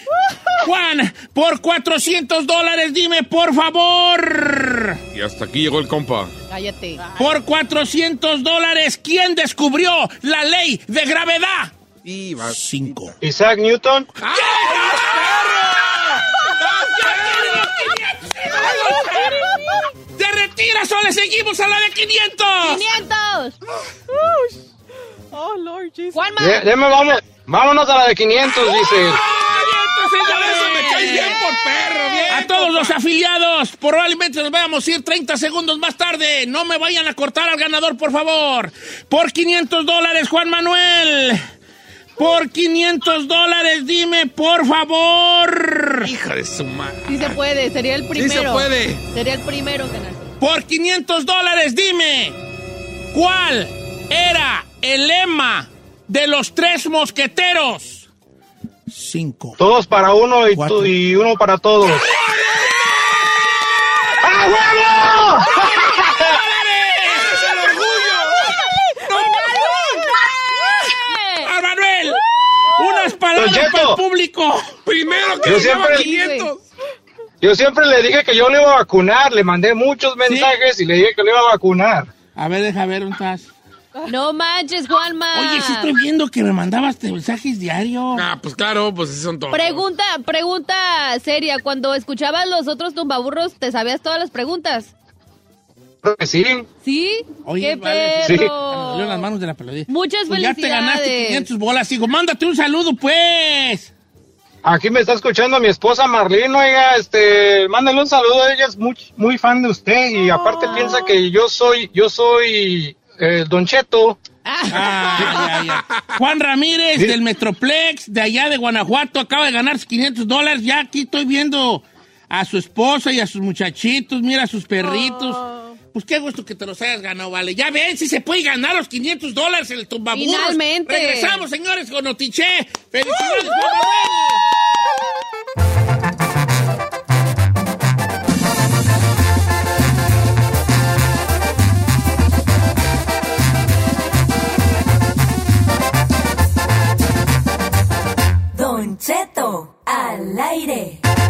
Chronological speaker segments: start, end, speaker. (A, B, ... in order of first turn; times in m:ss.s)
0:00.5-0:05.0 A
0:05.1-0:06.3 B
0:06.5-0:07.0 C
0:07.2-0:11.8 A
0:12.0-0:12.6 B
0:12.4-0:13.2 A
0:13.2-0:14.1 D
0:14.2-0:17.6 B
0:14.3-0:19.5 A
0:18.6-0:19.9 E
0:20.2-0:22.8 A
0:22.6-0:23.6 C
0:24.1-0:24.6 E
0:25.3-0:26.3 E
0:26.1-0:26.7 C
0:26.4-0:29.2 D
0:28.6-0:31.4 A
0:29.1-0:32.8 B
0:31.0-0:31.4 C
0:32.1-0:32.4 C
0:32.3-0:41.4 A
0:42.2-0:46.1 A
0:46.0-0:47.4 B
0:47.1-0:50.4 C
0:48.1-0:49.0 B
0:50.4-0:52.4 A
0:53.1-0:58.1 A
0:58.9-0:59.6 A
0:59.6-1:02.1 D
1:00.5-1:00.9 A
1:02.5-1:03.2 A
1:03.9-1:04.2 A
1:04.2-1:06.4 D
1:05.5-1:07.5 A
1:07.1-1:08.6 B
1:09.1-1:09.8 B
1:11.0-1:11.5 C
1:11.4-1:12.2 A
1:12.8-1:14.8 A
1:13.4-1:14.0 D
1:14.9-1:16.6 B
1:15.4-1:16.1 D
1:15.7-1:16.5 C
1:17.4-1:22.1 D
1:20.2-1:20.5 A
1:22.4-1:23.5 A
1:24.1-1:25.9 C
1:25.3-1:28.3 A
1:28.1-1:29.8 B
1:29.5-1:34.9 C
1:36.0-1:36.7 D
1:36.8-1:39.3 C
1:37.4-1:43.9 A
1:39.9-1:41.5 C
1:44.6-1:54.2 D
1:50.2-1:51.2 E
1:50.7-1:51.0 C
1:54.4-1:55.5 C
1:54.7-2:14.4 A
1:55.3-1:56.0 B
2:04.8-2:05.8 E
2:10.1-2:11.4 C
2:28.6-2:31.0 F